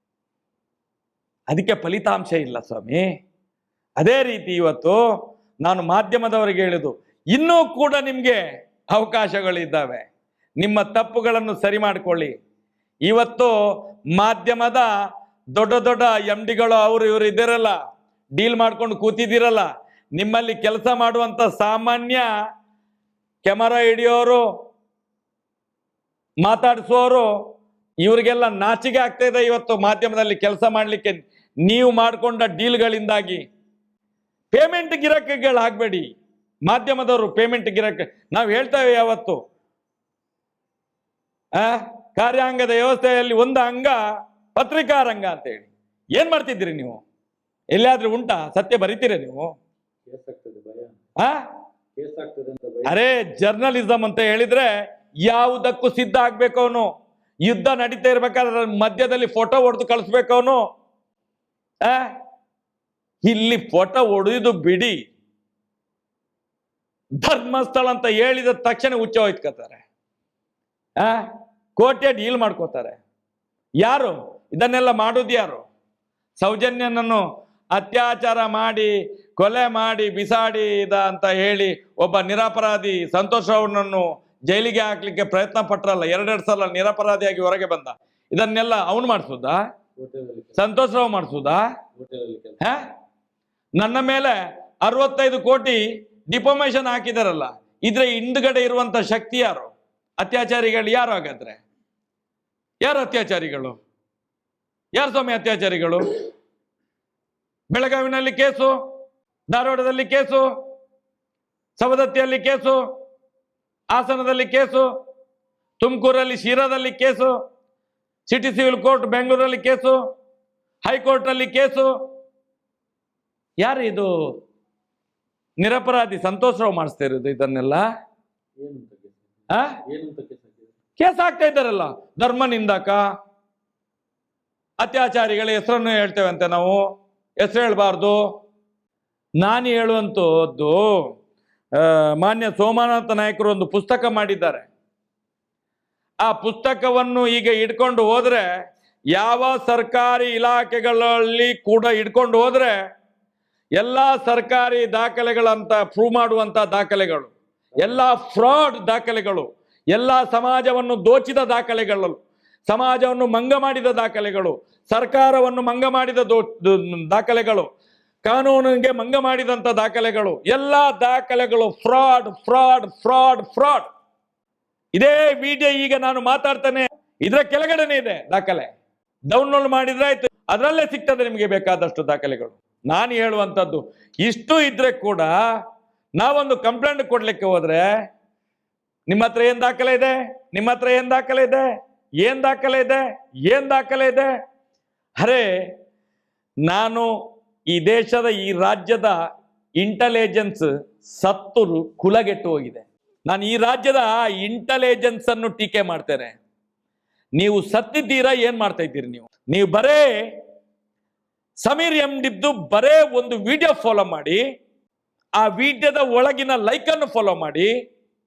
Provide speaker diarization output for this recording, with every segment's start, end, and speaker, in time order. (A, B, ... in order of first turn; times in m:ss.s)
0:01.5-0:03.0 A
0:04.0-0:05.0 A
0:05.6-0:08.4 A
0:08.9-0:10.0 A
0:10.6-0:12.3 A
0:13.1-0:13.5 A
0:14.1-0:14.9 A
0:15.6-0:17.8 A
0:18.4-0:22.3 A
0:23.4-0:24.4 A
0:26.4-0:27.3 A
0:28.0-0:33.4 A
0:34.5-0:36.0 A
0:36.7-0:39.4 A
0:41.6-0:44.0 A
0:44.5-0:47.0 A
0:47.7-0:49.5 A
0:50.1-0:51.0 B
0:52.0-0:53.0 B
0:52.8-0:54.7 A
0:55.3-0:56.9 A
0:57.4-1:00.6 A
1:03.2-1:05.0 A
1:07.2-1:09.8 A
1:11.0-1:11.2 A
1:11.8-1:13.0 A
1:13.8-1:15.6 A
1:16.4-1:17.2 A
1:17.7-1:29.6 A
1:30.0-1:30.6 B
1:30.6-1:31.6 A
1:32.0-1:32.6 B
1:32.6-1:32.9 A
1:33.8-1:41.6 A
1:42.8-1:43.8 A
1:45.0-1:46.0 A
1:47.7-1:48.7 A
1:49.5-1:50.5 A
1:51.8-1:52.8 A
1:53.9-1:54.9 A
1:55.8-1:57.3 A
1:58.3-2:00.0 A
2:00.8-2:01.9 A
2:03.6-2:04.1 A
2:05.6-2:07.8 A
2:08.6-2:10.7 B
2:09.5-2:09.8 A
2:11.0-2:13.0 A
2:14.8-2:16.8 A
2:17.4-2:18.2 A
2:19.4-2:20.9 A
2:21.8-2:24.7 A
2:26.2-2:28.4 A
2:29.1-2:32.7 A
2:33.8-2:47.7 A
2:48.2-2:53.8 A
2:55.0-2:58.7 A
2:59.3-3:05.3 A
3:06.2-3:07.9 A
3:09.1-3:11.7 A
3:12.2-3:14.3 A
3:15.2-3:15.5 A
3:16.6-3:17.1 A
3:17.7-3:19.2 A
3:19.8-3:26.3 A
3:27.4-3:30.1 A
3:31.6-3:34.4 A
3:35.4-3:37.7 A